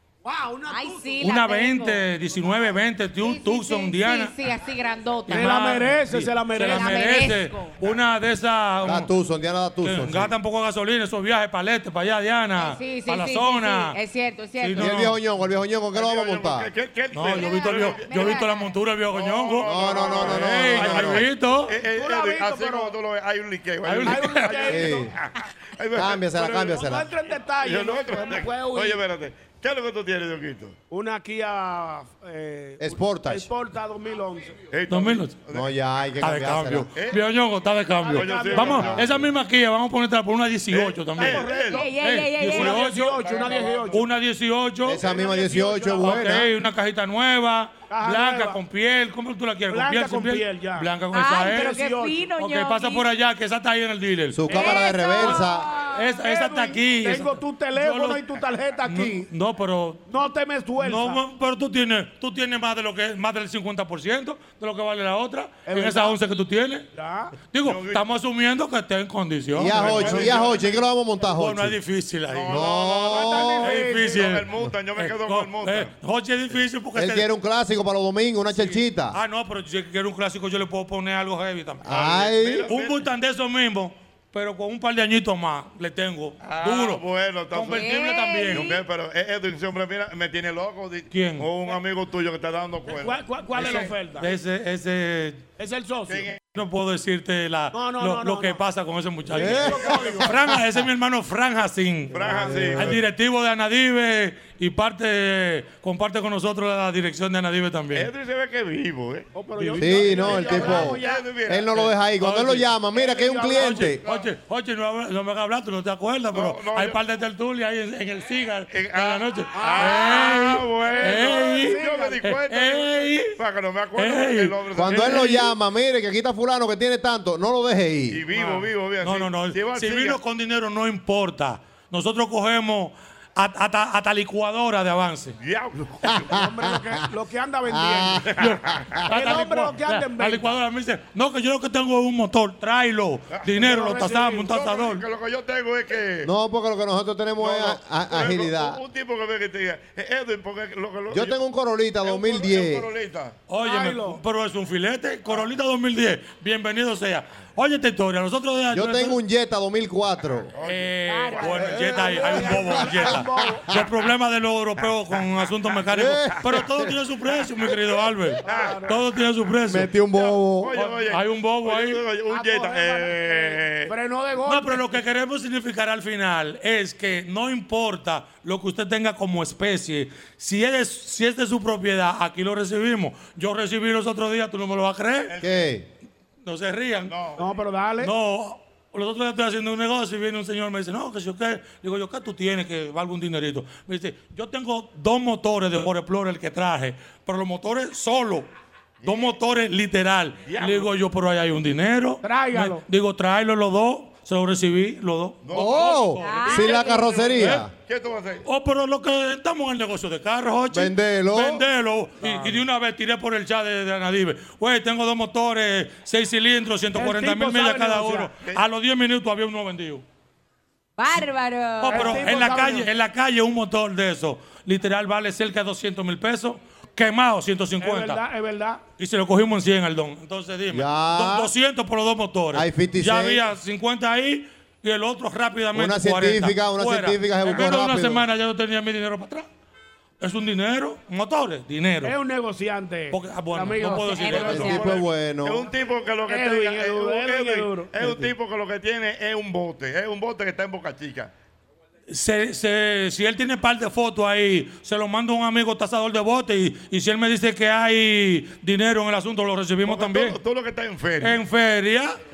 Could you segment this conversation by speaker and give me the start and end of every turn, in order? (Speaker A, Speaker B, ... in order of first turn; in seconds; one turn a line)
Speaker A: 0.2-1.3
Speaker B: 0.7-2.0
Speaker C: 1.2-4.3
Speaker B: 3.2-5.6
Speaker C: 5.3-9.1
Speaker A: 5.3-7.1
Speaker B: 6.5-7.8
Speaker D: 8.8-10.3
Speaker C: 9.8-14.0
Speaker B: 12.6-14.9
Speaker C: 14.6-15.2
Speaker D: 14.8-16.7
Speaker E: 15.9-18.4
Speaker C: 17.1-21.8
Speaker B: 17.4-18.7
Speaker E: 19.1-30.8
Speaker D: 19.6-21.2
Speaker A: 21.8-22.9
Speaker C: 23.9-24.7
Speaker A: 24.0-25.0
Speaker D: 24.7-25.1
Speaker D: 25.9-27.0
Speaker A: 26.6-29.0
Speaker A: 30.9-34.6
Speaker D: 32.8-33.5
Speaker E: 34.7-35.7
Speaker C: 34.9-35.4
Speaker D: 35.5-36.9
Speaker C: 36.2-43.1
Speaker E: 36.9-37.2
Speaker A: 38.0-39.0
Speaker E: 38.1-39.3
Speaker E: 40.7-41.9
Speaker A: 41.2-44.0
Speaker B: 41.7-43.0
Speaker E: 42.4-44.1
Speaker C: 43.9-45.1
Speaker D: 44.9-46.5
Speaker C: 45.9-51.8
Speaker A: 47.9-48.6
Speaker A: 49.7-52.3
Speaker B: 51.1-53.1
Speaker C: 52.3-58.3
Speaker D: 54.3-55.7
Speaker B: 54.5-56.1
Speaker A: 56.2-59.3
Speaker C: 58.8-60.0
Speaker A: 60.1-61.2
Speaker C: 60.8-66.8
Speaker A: 65.6-66.2
Speaker A: 66.9-67.3
Speaker C: 67.4-70.4
Speaker E: 67.6-68.1
Speaker D: 69.5-71.8
Speaker E: 69.7-70.8
Speaker C: 71.3-72.7
Speaker E: 72.3-75.9
Speaker D: 72.5-73.7
Speaker A: 73.0-74.2
Speaker C: 73.6-77.3
Speaker D: 76.9-79.2
Speaker C: 78.6-81.9
Speaker D: 81.8-82.7
Speaker E: 81.9-83.0
Speaker C: 82.7-87.0
Speaker E: 86.4-93.9
Speaker C: 87.5-88.7
Speaker B: 87.6-88.8
Speaker C: 91.1-91.5
Speaker A: 92.9-94.3
Speaker C: 93.6-95.4
Speaker A: 95.6-96.3
Speaker E: 96.1-96.4
Speaker C: 96.5-108.1
Speaker A: 97.7-98.6
Speaker D: 99.3-99.9
Speaker A: 99.4-100.4
Speaker E: 99.7-100.2
Speaker E: 102.1-103.0
Speaker A: 102.2-102.9
Speaker D: 102.6-102.9
Speaker E: 107.9-111.9
Speaker A: 109.3-111.2
Speaker D: 109.8-114.0
Speaker C: 112.2-112.7
Speaker A: 112.9-113.8
Speaker C: 113.5-123.3
Speaker E: 116.3-117.0
Speaker E: 118.7-125.3
Speaker A: 119.5-122.2
Speaker C: 124.0-125.5
Speaker D: 124.8-128.2
Speaker E: 128.1-130.2
Speaker C: 129.0-135.4
Speaker E: 135.4-136.4
Speaker D: 136.1-136.4
Speaker A: 136.3-138.3
Speaker D: 137.7-138.4
Speaker E: 138.2-138.8
Speaker C: 138.4-145.0
Speaker A: 139.1-140.5
Speaker E: 143.3-146.3
Speaker A: 143.6-144.2
Speaker D: 146.2-148.8
Speaker E: 147.4-151.4
Speaker D: 151.1-152.9
Speaker E: 152.0-153.4
Speaker C: 153.5-159.2
Speaker A: 153.6-154.2
Speaker D: 158.7-160.5
Speaker E: 160.6-162.8
Speaker C: 160.6-169.9
Speaker A: 161.2-163.7
Speaker D: 162.2-163.7
Speaker D: 165.9-166.9
Speaker A: 168.4-169.0
Speaker E: 168.4-169.0
Speaker D: 169.7-170.7
Speaker E: 170.1-173.9
Speaker C: 170.8-172.0
Speaker A: 172.3-174.9
Speaker C: 174.4-185.3
Speaker E: 185.3-185.6
Speaker D: 185.4-185.8
Speaker C: 186.4-187.1
Speaker E: 187.1-187.5
Speaker A: 187.4-188.1
Speaker C: 188.0-198.5
Speaker E: 199.0-199.4
Speaker C: 199.0-206.7
Speaker E: 200.4-200.9
Speaker A: 202.2-202.8
Speaker E: 205.4-208.4
Speaker D: 205.5-207.7
Speaker B: 206.2-207.1
Speaker C: 207.3-207.6
Speaker C: 208.4-220.0
Speaker D: 210.7-211.6
Speaker E: 212.2-212.6
Speaker A: 216.9-218.3
Speaker B: 221.0-222.4
Speaker C: 221.8-228.2
Speaker A: 221.8-222.9
Speaker A: 227.8-228.8
Speaker C: 229.0-239.5
Speaker D: 230.7-231.5
Speaker D: 232.5-233.5
Speaker D: 235.7-238.2
Speaker C: 240.2-242.2
Speaker A: 242.0-244.7
Speaker C: 243.1-244.8
Speaker B: 244.1-244.6
Speaker E: 244.2-251.3
Speaker D: 244.3-245.7
Speaker A: 246.3-247.9
Speaker C: 252.1-260.4
Speaker E: 259.9-261.4
Speaker C: 261.2-262.2